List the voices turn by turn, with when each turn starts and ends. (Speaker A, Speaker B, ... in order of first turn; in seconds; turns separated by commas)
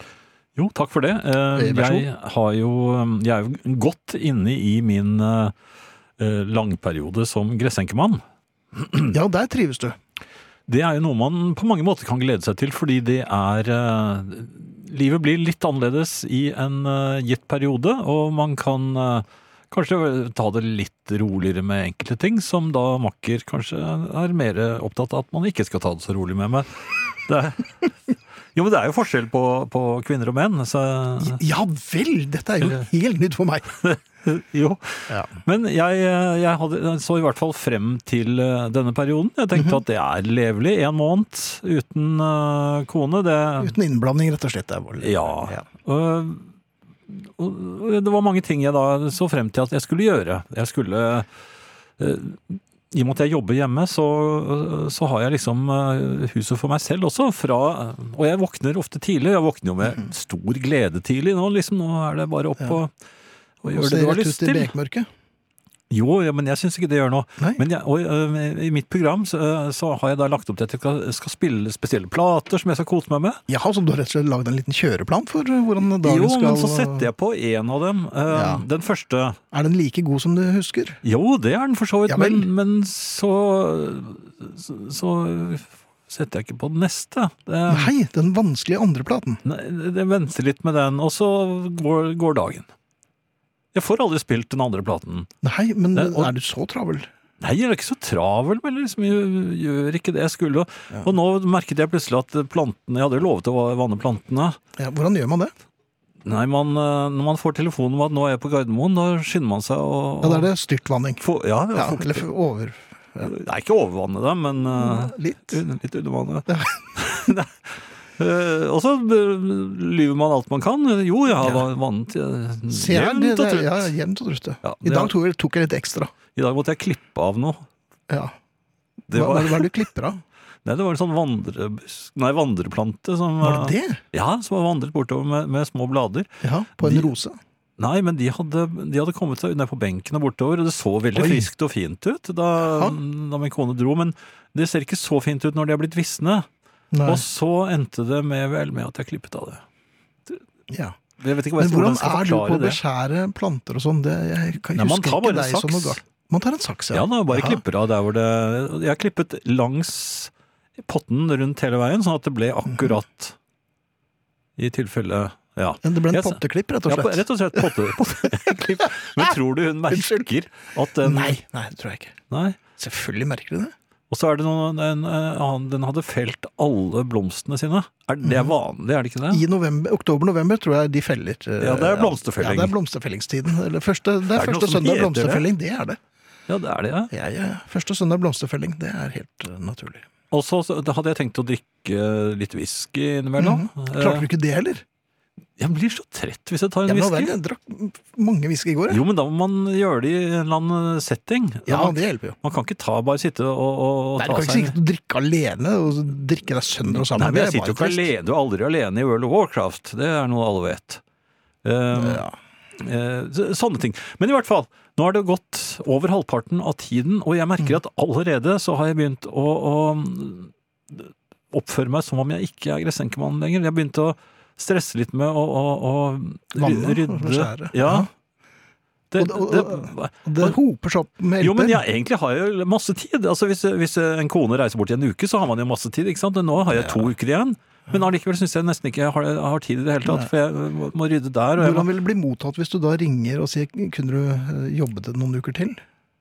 Speaker A: 0.6-5.5, Speaker B: 1.5-2.1, Speaker A: 6.2-8.2, Speaker A: 8.8-9.1, Speaker B: 9.1-10.0, Speaker A: 10.7-27.9, Speaker A: 28.5-31.4, Speaker B: 31.2-33.8, Speaker A: 33.8-43.7, Speaker B: 39.5-39.8, Speaker B: 43.6-45.6, Speaker A: 45.0-46.5, Speaker A: 47.1-51.3, Speaker A: 52.0-62.9, Speaker A: 63.6-64.7, Speaker B: 63.6-65.1, Speaker A: 65.9-73.4, Speaker B: 73.5-77.1, Speaker A: 75.9-79.4, Speaker B: 78.3-78.6, Speaker B: 79.5-81.0, Speaker A: 81.0-87.9, Speaker B: 82.1-82.5, Speaker B: 87.7-89.4, Speaker A: 89.4-92.7, Speaker A: 93.7-95.3, Speaker B: 95.4-97.1, Speaker A: 95.9-96.3, Speaker A: 97.4-104.6, Speaker B: 104.8-105.5, Speaker A: 106.2-110.5, Speaker B: 110.2-113.3, Speaker A: 111.2-112.2, Speaker A: 113.2-117.5, Speaker B: 114.8-115.6, Speaker B: 116.5-116.8, Speaker A: 118.2-123.9, Speaker B: 122.7-126.1, Speaker A: 124.6-125.1, Speaker A: 126.3-127.6, Speaker B: 128.1-128.3, Speaker A: 129.1-129.7, Speaker B: 129.1-130.2, Speaker A: 130.6-136.3, Speaker B: 133.4-134.0, Speaker B: 136.4-137.4, Speaker A: 136.8-137.1, Speaker A: 137.8-146.5, Speaker B: 141.1-141.5, Speaker B: 142.7-143.0, Speaker B: 146.9-147.2, Speaker A: 147.0-149.6, Speaker B: 150.7-151.0, Speaker A: 151.2-152.8, Speaker B: 151.6-157.6, Speaker A: 154.7-156.0, Speaker A: 156.9-163.3, Speaker A: 164.6-171.4, Speaker B: 165.8-169.3, Speaker B: 169.9-170.2, Speaker B: 171.0-172.2, Speaker A: 172.3-172.6, Speaker B: 172.8-173.7, Speaker A: 174.1-179.4, Speaker B: 178.2-178.5, Speaker B: 179.3-186.0, Speaker A: 181.6-182.7, Speaker A: 184.3-185.5, Speaker A: 186.5-187.1, Speaker B: 187.1-190.1, Speaker A: 190.3-194.3, Speaker B: 193.4-194.8, Speaker A: 195.6-197.3, Speaker B: 196.9-199.0, Speaker A: 198.9-204.7, Speaker B: 201.7-202.3, Speaker B: 204.2-208.1, Speaker A: 206.9-211.0, Speaker A: 211.6-212.2, Speaker B: 211.9-212.3, Speaker A: 212.8-228.1, Speaker B: 226.5-228.1, Speaker A: 229.1-230.6, Speaker B: 229.2-231.8, Speaker A: 231.4-241.9, Speaker B: 236.7-237.1, Speaker B: 241.6-245.8